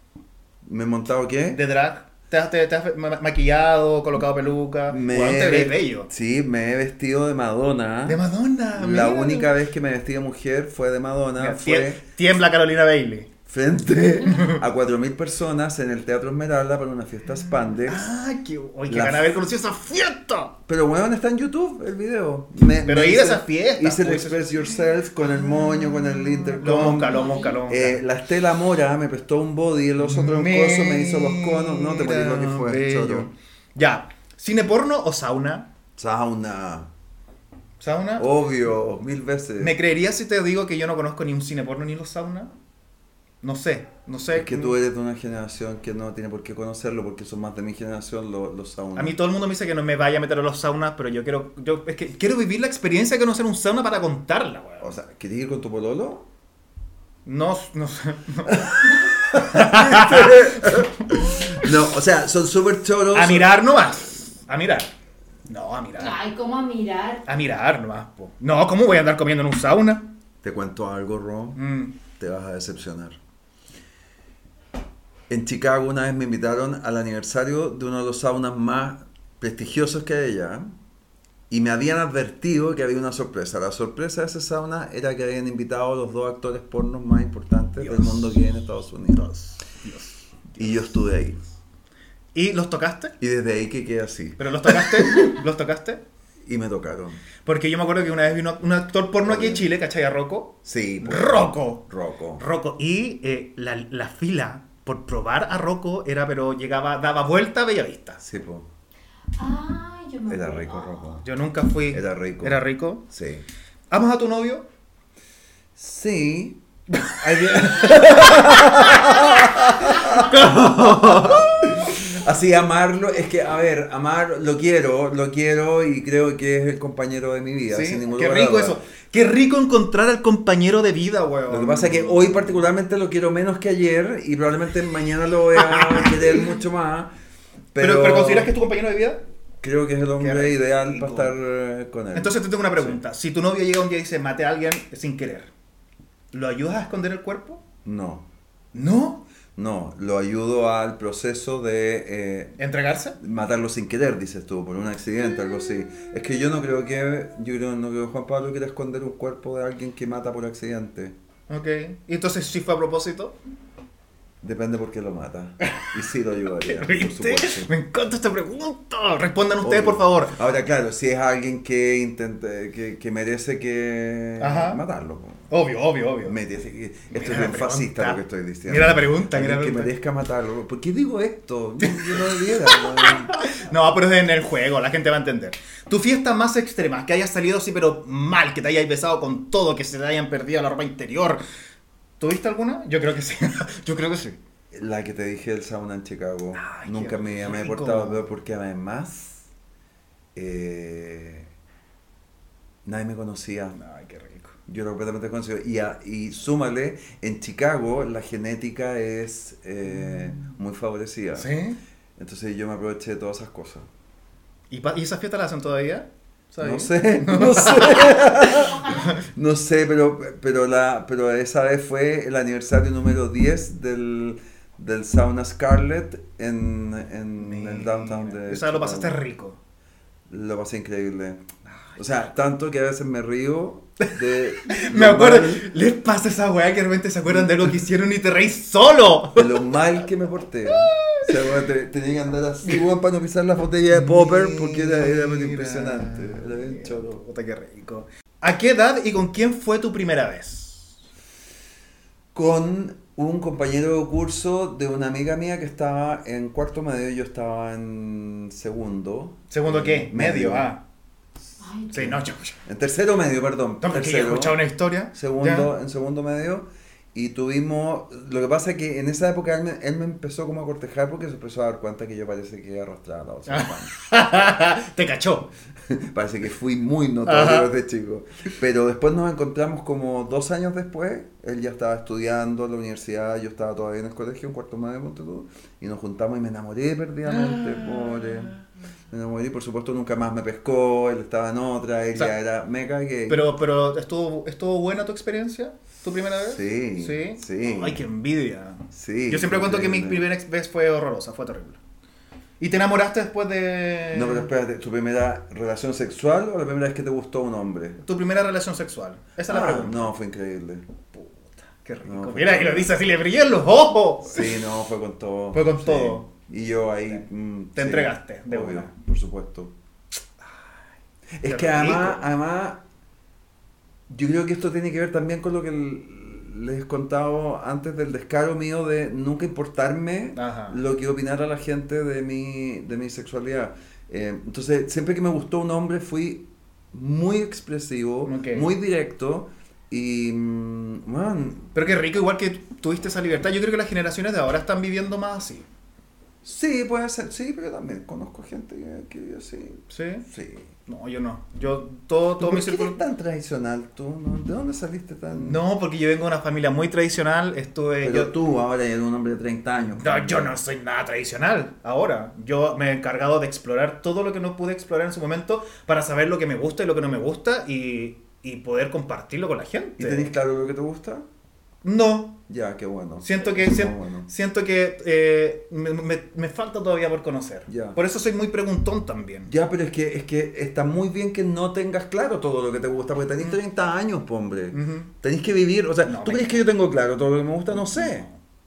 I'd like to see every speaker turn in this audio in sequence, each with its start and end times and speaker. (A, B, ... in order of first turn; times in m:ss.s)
0:00.6-0:01.6 A
0:01.5-0:06.1 B
0:04.9-0:08.2 A
0:08.0-0:09.5 B
0:08.7-0:12.0 A
0:11.4-0:13.3 B
0:13.5-0:18.1 A
0:14.3-0:14.6 B
0:17.8-0:20.5 B
0:18.9-0:19.4 A
0:20.7-0:33.3 A
0:22.8-0:24.4 B
0:26.6-0:28.0 B
0:26.8-0:27.6 C
0:30.0-0:35.7 B
0:36.0-0:36.9 A
0:37.8-0:38.3 B
0:38.2-0:39.8 A
0:39.6-0:42.5 B
0:43.4-0:44.7 B
0:44.3-0:49.2 A
0:49.0-0:54.9 B
0:54.8-0:56.2 A
0:57.2-1:00.9 B
0:58.5-1:03.6 A
1:03.1-1:04.9 B
1:05.5-1:06.2 B
1:06.0-1:07.2 C
1:07.2-1:10.1 B
1:10.4-1:11.6 A
1:11.6-1:12.0 B
1:12.1-1:13.2 A
1:15.3-1:20.7 A
1:21.5-1:29.2 A
1:27.8-1:28.4 B
1:29.1-1:31.0 B
1:30.6-1:31.4 A
1:32.3-1:33.2 B
1:33.2-1:35.3 A
1:34.4-1:36.0 B
1:36.4-1:37.2 A
1:37.4-1:41.8 B
1:39.2-1:39.7 A
1:40.6-1:42.4 A
1:42.4-1:48.2 B
1:48.2-1:48.7 A
1:49.4-1:51.1 C
1:50.3-1:51.2 A
1:51.2-1:53.0 B
1:51.9-1:53.4 A
1:53.9-1:54.7 B
1:55.8-1:56.6 A
1:56.9-2:01.7 B
1:57.1-2:08.8 A
2:07.7-2:12.5 B
2:11.5-2:17.1 A
2:15.5-2:16.4 B
2:17.7-2:18.5 A
2:17.8-2:19.2 B
2:19.6-2:23.0 A
2:20.2-2:21.3 B
2:22.1-2:25.5 B
2:26.3-2:27.6 B
2:27.8-2:28.3 A
2:28.7-2:29.2 B
2:29.6-2:32.6 A
2:32.6-2:33.2 B
2:33.2-2:41.2 A
2:41.5-2:43.4 B
2:44.4-2:47.7 A
2:45.6-2:45.9 B
2:46.6-2:50.4 B
2:49.6-2:55.5 A
2:54.4-2:54.8 B
2:55.5-2:56.4 B
2:56.2-3:03.4 A
2:57.1-2:59.9 B
3:01.8-3:11.4 B
3:12.2-3:14.4 B
3:14.7-3:19.5 A
3:16.5-3:18.3 B
3:20.3-3:21.5 A
3:22.8-3:23.8 A
3:23.7-3:24.5 B
3:24.7-3:31.5 A
3:31.4-3:31.8 B
3:32.2-3:33.9 A
3:34.7-3:39.2 B
3:36.6-3:49.2 A
3:38.5-3:39.1 C
3:47.4-3:49.6 B
3:50.3-3:51.4 A
3:52.0-3:55.7 A
3:54.0-3:59.7 B
3:57.3-3:57.7 A
3:59.4-4:07.2 A
4:00.7-4:01.3 B
4:03.9-4:11.0 B
4:12.3-4:20.7 A
4:19.5-4:20.8 B
4:21.6-4:22.2 C
4:21.9-4:22.6 B
4:22.6-4:33.9 A
4:23.8-4:25.7 B
4:33.5-4:35.5 B
4:35.9-4:48.6 A
4:37.2-4:37.7 B
4:47.3-4:48.5 B
4:49.1-4:53.5 A
4:53.3-5:01.8 B
4:56.4-4:58.0 A
4:58.9-5:00.2 A
5:02.6-5:04.5 B
5:04.1-5:08.0 A
5:08.0-5:10.1 B
5:09.5-5:10.8 A
5:11.1-5:14.6 B
5:12.0-5:12.9 A
5:14.2-5:19.7 A
5:15.5-5:16.3 B
5:17.7-5:18.9 B
5:21.4-5:22.8 A
5:21.4-5:22.2 B
5:24.1-5:41.7 A
5:30.4-5:30.8 B
5:38.2-5:38.7 B
5:41.7-5:45.6 B
5:46.4-5:50.7 A
5:49.9-5:50.2 B
5:50.8-5:53.0 B
5:52.4-5:55.6 A
5:55.4-5:58.3 B
5:58.0-6:00.5 A
6:00.0-6:10.3 B
6:10.0-6:11.2 A
6:11.8-6:12.4 B
6:12.5-6:14.3 A
6:13.2-6:19.5 B
6:17.7-6:18.0 A
6:19.5-6:28.3 A
6:24.7-6:25.1 B
6:26.0-6:26.6 B
6:27.7-6:28.4 B